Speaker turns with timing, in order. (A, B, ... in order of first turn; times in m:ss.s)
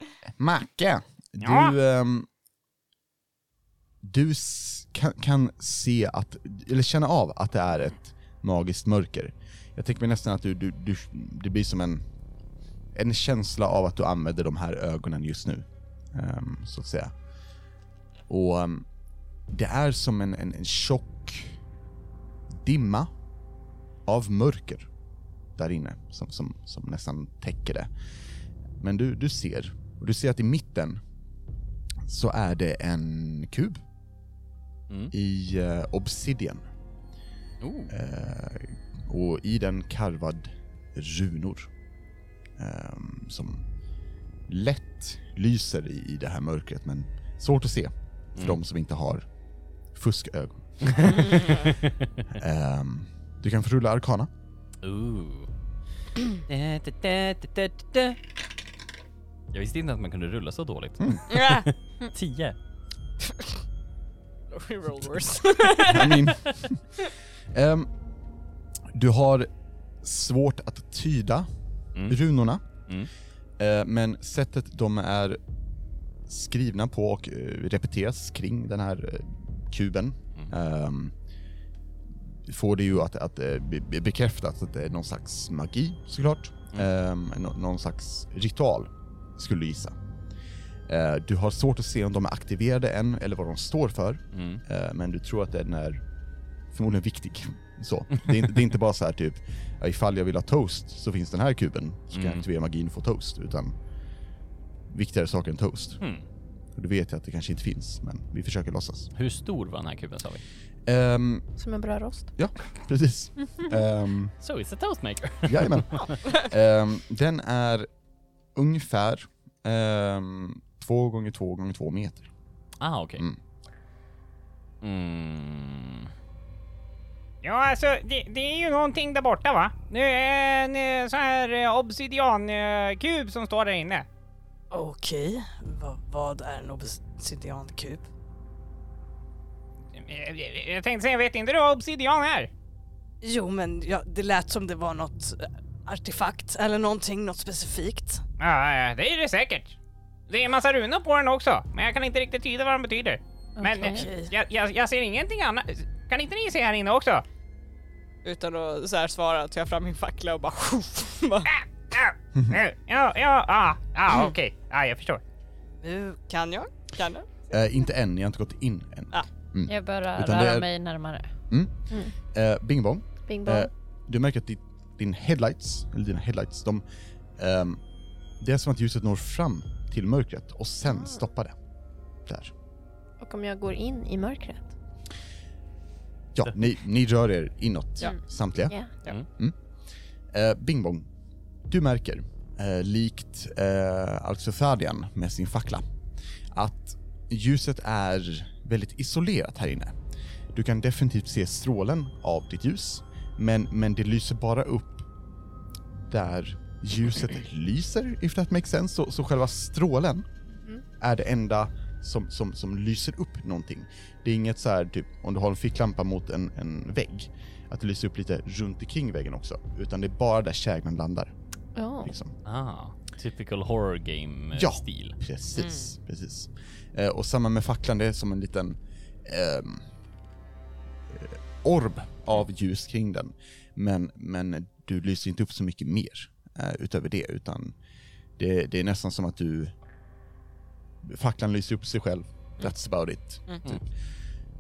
0:00.3-0:02.3 A
0:01.4-0:01.7 B
0:04.0-0:12.0 A
0:12.9-0:17.1 A
0:18.3-0:18.9 A
0:19.5-0:21.6 A
0:22.6-0:23.1 A
0:24.0-0:24.9 A
0:25.6-0:27.9 A
0:28.8-0:31.0 A
0:32.0-0:33.8 A
0:35.1-0:36.6 A
0:37.6-0:37.9 C
0:37.9-0:41.7 A
0:42.6-0:43.6 A
0:44.5-0:49.3 A
0:49.9-0:51.6 A
0:50.9-0:51.9 C
0:52.4-0:54.3 A
0:54.8-0:55.5 C
0:56.5-0:58.2 C
0:59.5-1:02.6 C
1:01.3-1:01.7 D
1:04.5-1:06.2 D
1:05.8-1:06.8 A
1:07.5-1:07.9 A
1:08.9-1:09.5 A
1:10.0-1:11.5 A
1:12.0-1:12.6 A
1:13.6-1:15.4 A
1:16.3-1:21.1 A
1:22.5-1:30.0 A
1:30.9-1:36.0 A
1:34.3-1:34.6 C
1:36.7-1:43.8 A
1:42.1-1:42.4 C
1:44.9-1:46.0 A
1:46.8-1:49.1 A
1:49.2-1:50.4 C
1:50.9-1:51.5 A
1:51.6-1:52.3 E
1:52.4-1:54.4 A
1:54.4-1:56.2 C
1:55.4-1:57.9 A
1:58.6-2:02.3 A
2:02.8-2:03.3 C
2:04.8-2:06.1 C
2:07.4-2:14.1 B
2:14.7-2:18.1 D
2:20.0-2:22.5 B
2:23.2-2:28.2 D
2:28.4-2:29.8 B
2:30.3-2:37.2 B
2:33.6-2:34.1 F
2:33.9-2:34.3 D
2:38.2-2:41.5 D
2:41.5-2:45.2 B
2:42.4-2:42.6 A
2:45.8-2:47.5 D
2:47.5-2:50.7 A
2:49.7-2:51.3 F
2:51.5-2:51.8 A
2:52.3-2:56.8 A
2:53.3-2:53.7 E
2:57.4-2:57.8 A
2:58.4-3:01.6 A
3:00.9-3:01.2 E
3:02.3-3:02.5 A
3:03.2-3:04.7 E
3:06.3-3:08.8 A
3:10.3-3:11.1 A
3:11.7-3:15.9 A
3:16.5-3:20.0 A
3:20.5-3:25.1 A
3:26.1-3:30.3 A
3:30.5-3:30.8 E
3:31.0-3:41.3 A
3:41.8-3:42.1 E
3:42.0-3:42.4 A
3:42.4-3:45.2 C
3:44.5-3:49.9 A
3:45.6-3:45.9 D
3:51.1-3:57.8 A
3:58.4-3:59.7 A
4:01.0-4:03.8 A